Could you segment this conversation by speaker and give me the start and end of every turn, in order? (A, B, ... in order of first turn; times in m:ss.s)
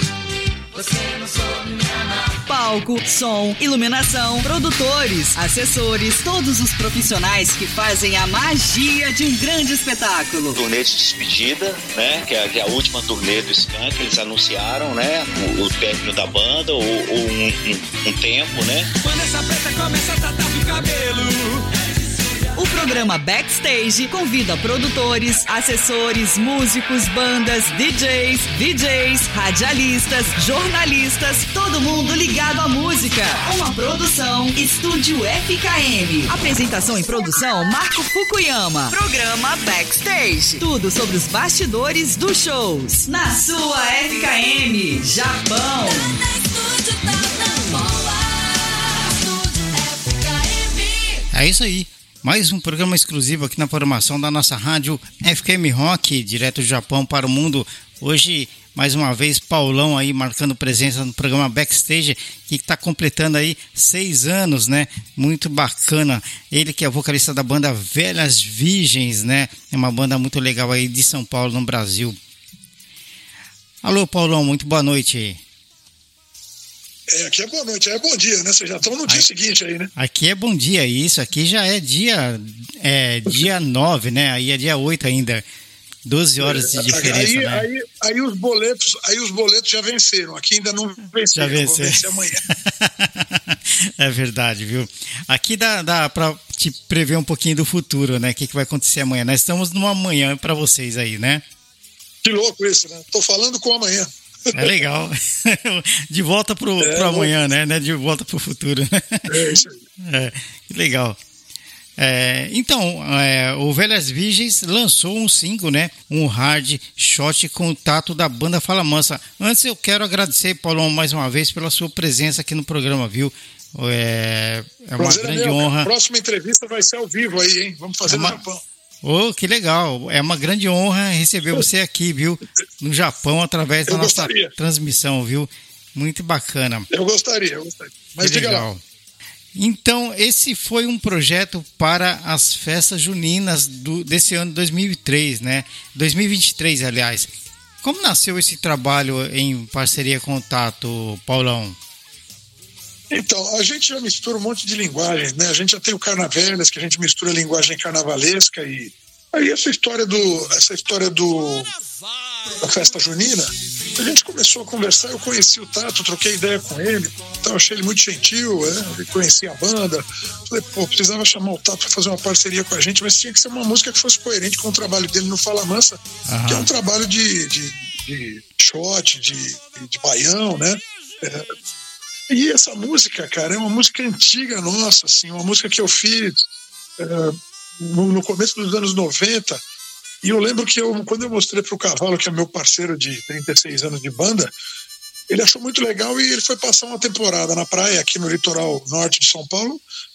0:02.4-0:10.6 A
0:10.5-0:18.9 B
0:19.0-0:22.4 C
0:22.6-0:48.1 A
0:49.6-0:50.7 A
0:51.3-1:12.2 D
1:13.8-1:15.4 D
1:17.1-1:19.9 E
1:20.0-1:25.4 D
1:26.0-1:27.6 D
1:26.4-1:32.4 E
1:31.4-1:41.4 D
1:42.2-1:44.8 E
1:44.5-1:51.2 D
1:46.8-1:47.3 E
1:49.3-1:49.8 E
1:52.0-2:05.9 D
2:05.0-2:08.6 E
2:08.1-2:08.4 D
2:09.0-2:16.9 D
2:13.9-2:14.5 E
2:16.9-2:18.7 E
2:18.2-2:18.8 D
2:19.5-2:27.3 D
2:27.8-2:31.8 D
2:33.1-2:41.7 E
2:42.6-3:01.5 E
2:56.3-2:56.7 D
3:02.3-3:06.4 E
3:07.0-3:09.6 E
3:10.2-3:14.5 E
3:15.3-3:19.8 E